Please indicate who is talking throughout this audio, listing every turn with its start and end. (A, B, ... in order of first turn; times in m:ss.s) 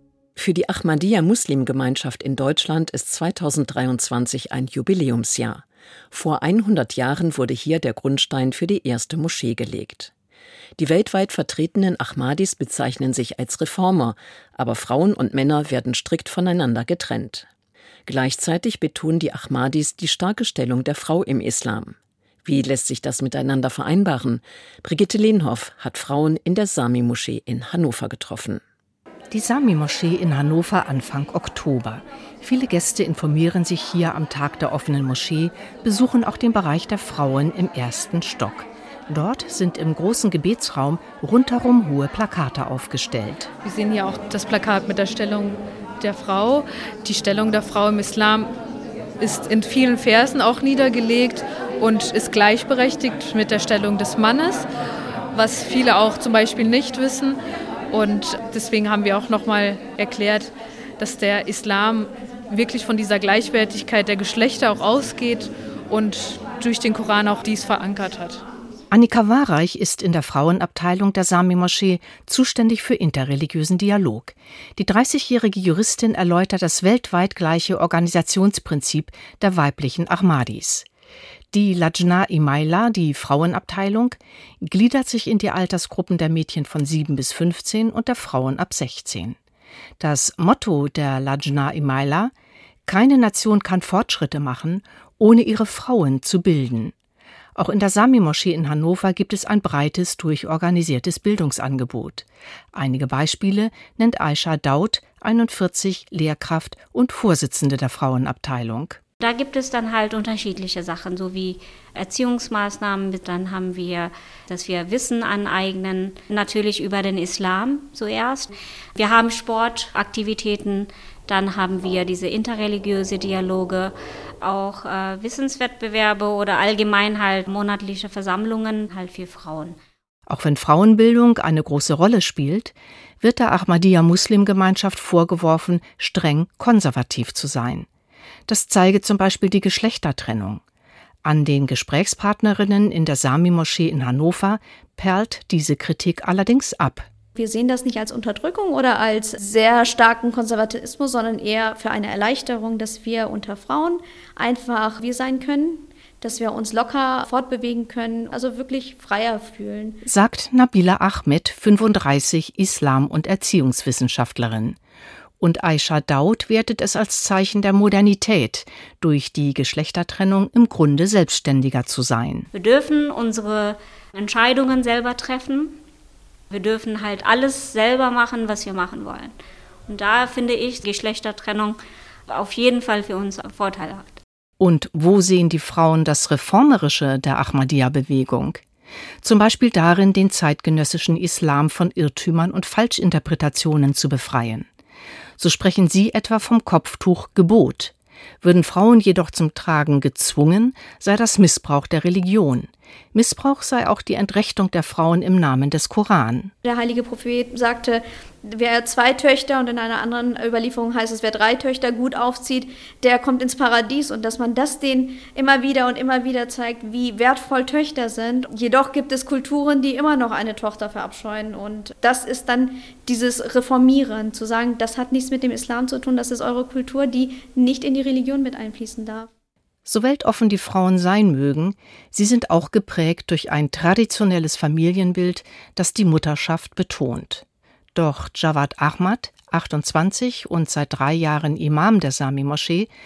0:00.4-0:10.1 A
0:10.8-0:17.5 A
0:18.0-0:28.6 A
0:29.3-0:43.5 B
0:43.6-0:48.5 C
0:49.2-0:54.6 C
0:55.3-0:57.4 C
0:57.9-1:08.4 C
1:08.9-1:20.8 B
1:21.5-1:29.4 B
1:30.0-1:32.3 B
1:32.9-1:36.9 B
1:37.6-1:49.0 B
1:49.2-2:09.8 D
2:10.3-2:17.8 B
2:18.5-2:20.6 B
2:21.2-2:27.1 B
2:27.3-2:40.0 E
2:40.0-2:44.8 B
2:45.4-2:52.5 B
2:52.5-2:55.8 D
2:56.5-2:59.3 D
2:59.9-3:04.2 D
3:04.6-3:08.6 B
3:09.2-3:14.6 B
3:15.4-3:26.5 B
3:26.6-3:49.3 E
3:49.8-3:57.4 B
3:57.9-4:02.9 B